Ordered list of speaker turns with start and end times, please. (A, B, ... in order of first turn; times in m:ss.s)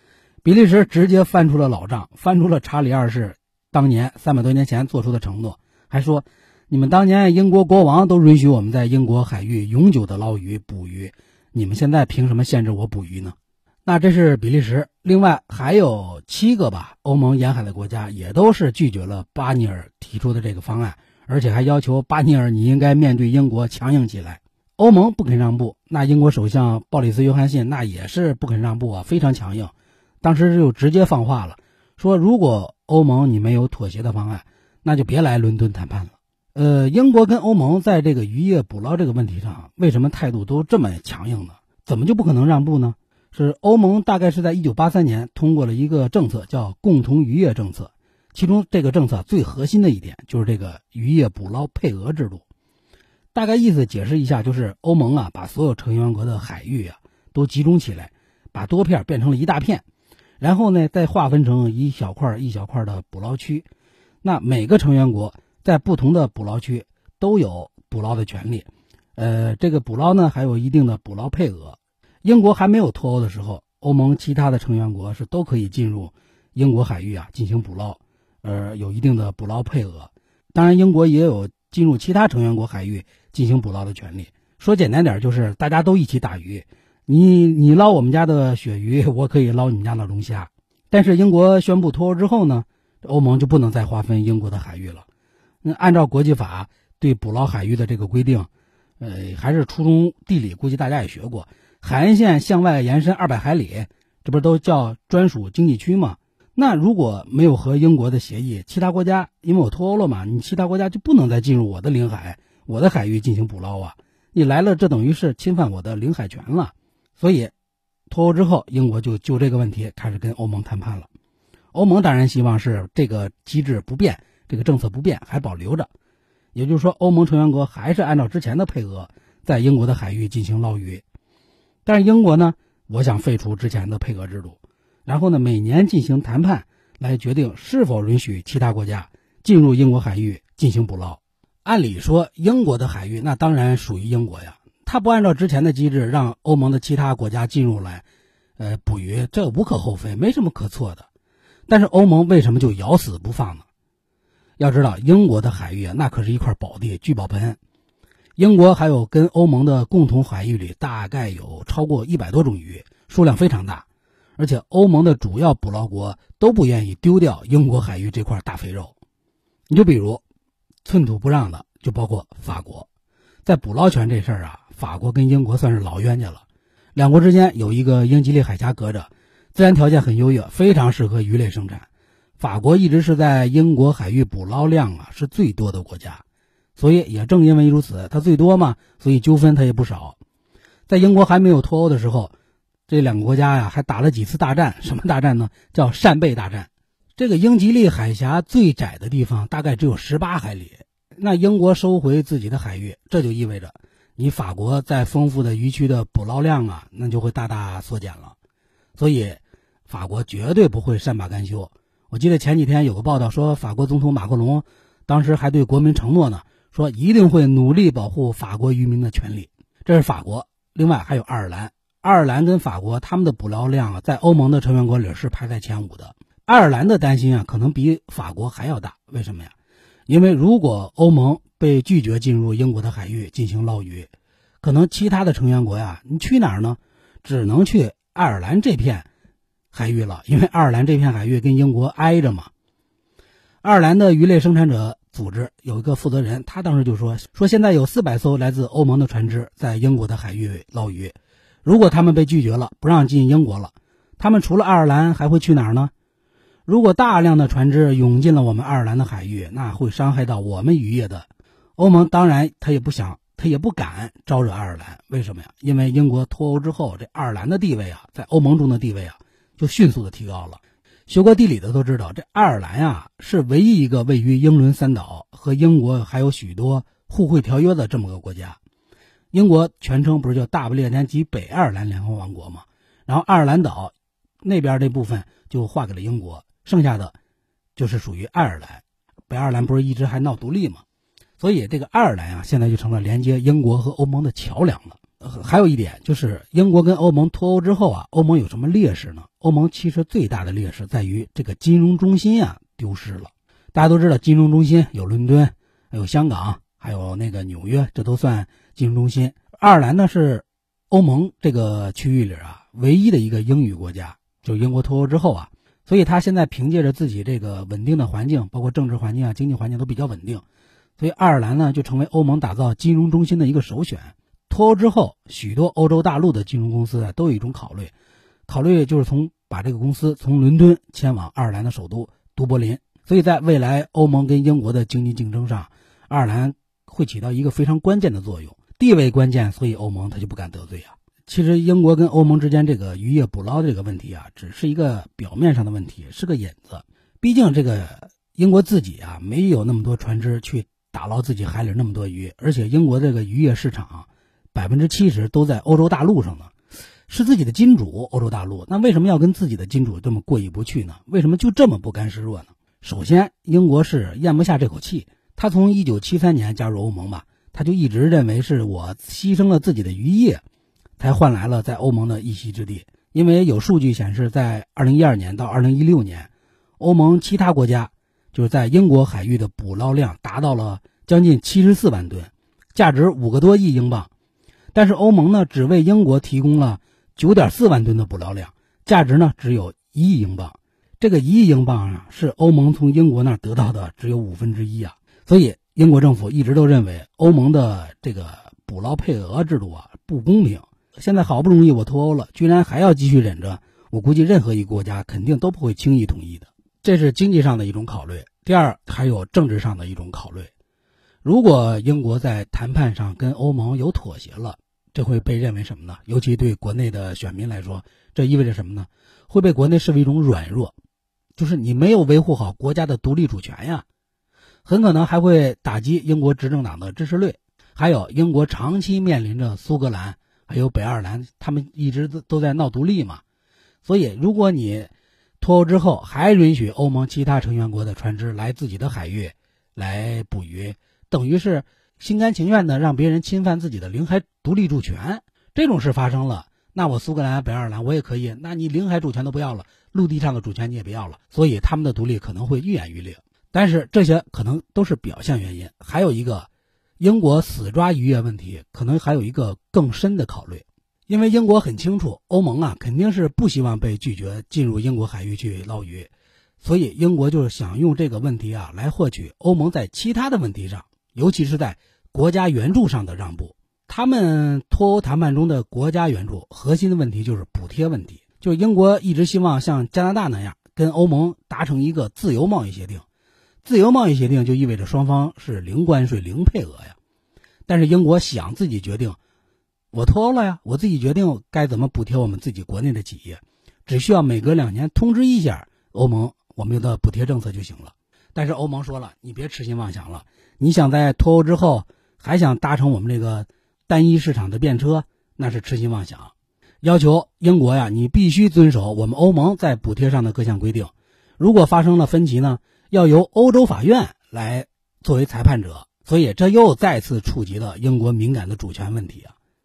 0:00.4-0:52.4 A
0:53.3-0:59.8 A
1:00.4-1:03.7 A
1:04.2-1:35.1 A
1:35.6-1:38.5 A
1:39.0-1:57.5 A
1:58.1-2:01.1 A
2:01.7-2:05.9 A
2:06.6-2:11.0 A
2:11.9-2:28.0 A
2:28.6-2:31.1 A
2:31.7-2:33.6 A
2:34.6-2:37.6 A
2:38.4-2:43.8 A
2:44.4-2:48.9 A
2:49.7-2:50.2 A
2:50.8-2:52.9 A
2:53.4-2:56.4 A
2:57.0-3:01.9 A
3:02.4-3:06.2 A
3:06.8-3:10.2 A
3:10.9-3:12.3 A
3:12.9-3:28.4 A
3:29.0-3:49.5 A
3:50.1-3:54.1 A
3:54.6-3:59.1 A
3:59.7-4:02.5 A
4:03.6-4:15.9 A
4:16.7-4:38.6 A
4:39.3-4:47.2 A
4:47.8-4:50.8 A
4:51.4-5:20.4 A
5:21.0-5:27.9 A
5:28.5-5:56.5 A
5:57.1-6:10.4 A
6:11.0-6:24.1 A
6:24.7-6:50.5 A
6:51.2-7:00.7 A
7:01.4-7:03.8 A
7:04.6-7:13.2 A
7:13.8-7:36.5 A
7:37.0-8:03.0 A
8:03.6-8:07.0 A
8:07.7-8:09.2 A
8:09.9-8:39.4 A